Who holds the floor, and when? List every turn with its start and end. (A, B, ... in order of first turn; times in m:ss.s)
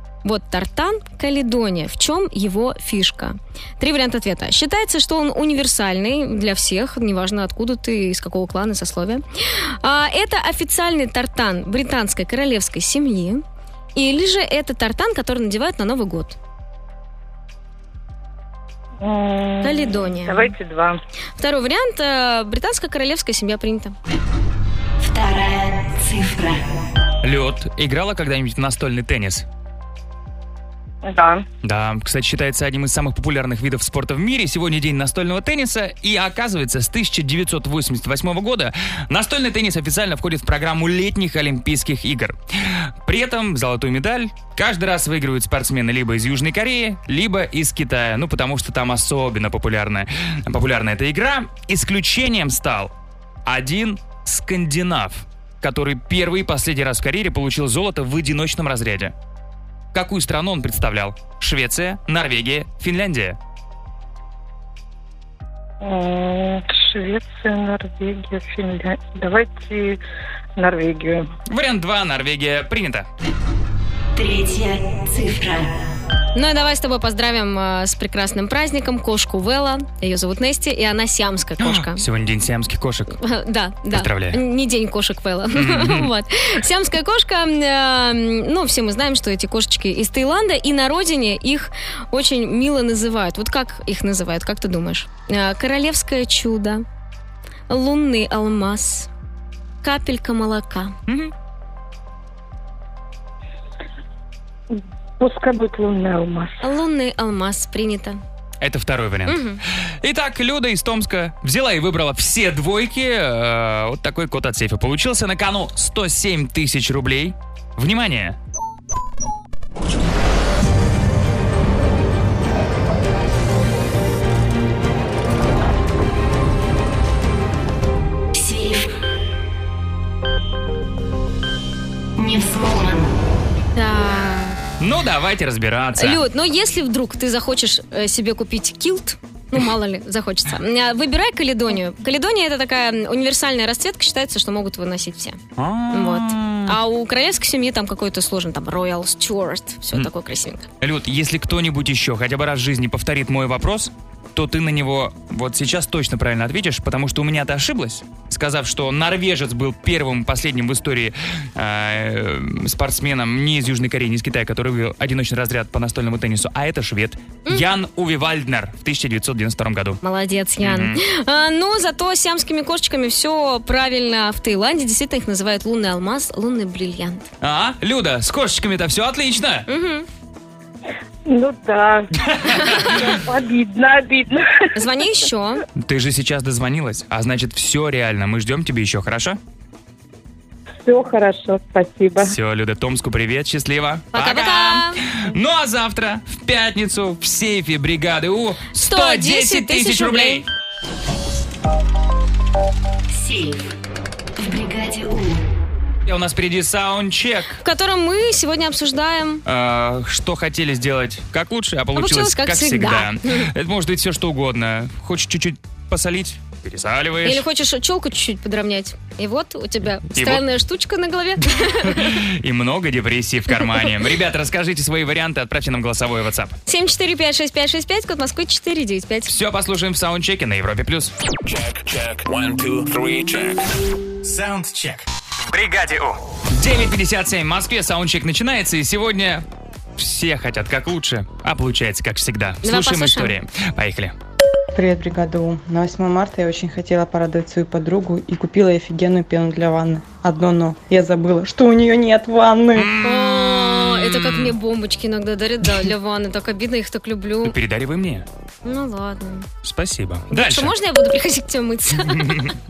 0:00.2-0:13.4 A
0:14.0-0:16.4 A
0:19.0-0:21.0 B
0:19.6-0:20.5 A
0:21.4-0:24.0 A
0:25.0-0:26.7 C
0:27.2-0:29.4 D
0:31.0-0:31.4 B
0:31.6-0:52.9 D
0:53.4-0:59.1 D
0:59.9-1:03.4 D
1:05.8-1:10.0 B
1:10.6-1:11.3 B
1:11.5-1:13.1 D
1:14.2-1:15.8 C
1:16.4-1:22.0 A
1:21.6-1:23.2 D
1:23.2-1:36.8 A
1:23.9-1:24.4 D
1:25.5-1:26.1 D
1:37.7-1:39.1 A
1:39.8-1:41.0 A
1:41.1-1:41.3 D
1:44.8-1:46.6 B
1:46.6-1:48.2 A
1:48.6-1:49.4 D
1:49.3-1:49.6 A
1:50.0-1:58.4 D
2:08.3-2:08.9 C
2:12.2-2:13.1 C
2:13.8-2:14.6 A
2:14.8-2:16.2 D
2:16.0-2:25.4 A
2:25.6-2:26.8 D
2:25.9-2:30.7 A
2:30.8-2:50.0 D
2:50.0-2:57.3 A
2:50.6-2:51.0 D
2:57.4-2:59.7 D
2:59.7-3:00.1 A
3:01.3-3:02.1 B
3:02.2-3:03.1 D
3:02.9-3:04.6 B
3:04.7-3:05.6 A
3:05.8-3:09.4 D
3:10.8-3:12.4 B
3:12.2-3:20.4 D
3:14.1-3:15.0 A
3:18.8-3:20.4 A
3:23.1-3:23.7 C
3:24.4-3:25.4 C
3:26.1-3:27.6 D
3:27.6-3:29.4 A
3:29.4-3:37.4 D
3:32.0-3:33.5 A
3:37.2-3:42.2 A
3:40.1-3:40.4 D
3:41.8-3:46.6 D
3:46.7-3:49.3 A
3:49.3-3:51.1 D
3:51.4-3:53.6 E
3:54.2-3:55.1 E
3:55.5-3:59.4 D
4:00.0-4:04.1 D
4:02.6-4:03.3 A
4:04.7-4:12.9 F
4:12.7-4:14.6 D
4:13.0-4:17.5 A
4:17.4-4:18.3 D
4:18.6-4:19.5 A
4:19.6-4:20.7 D
4:20.3-4:22.5 A
4:22.0-4:22.5 D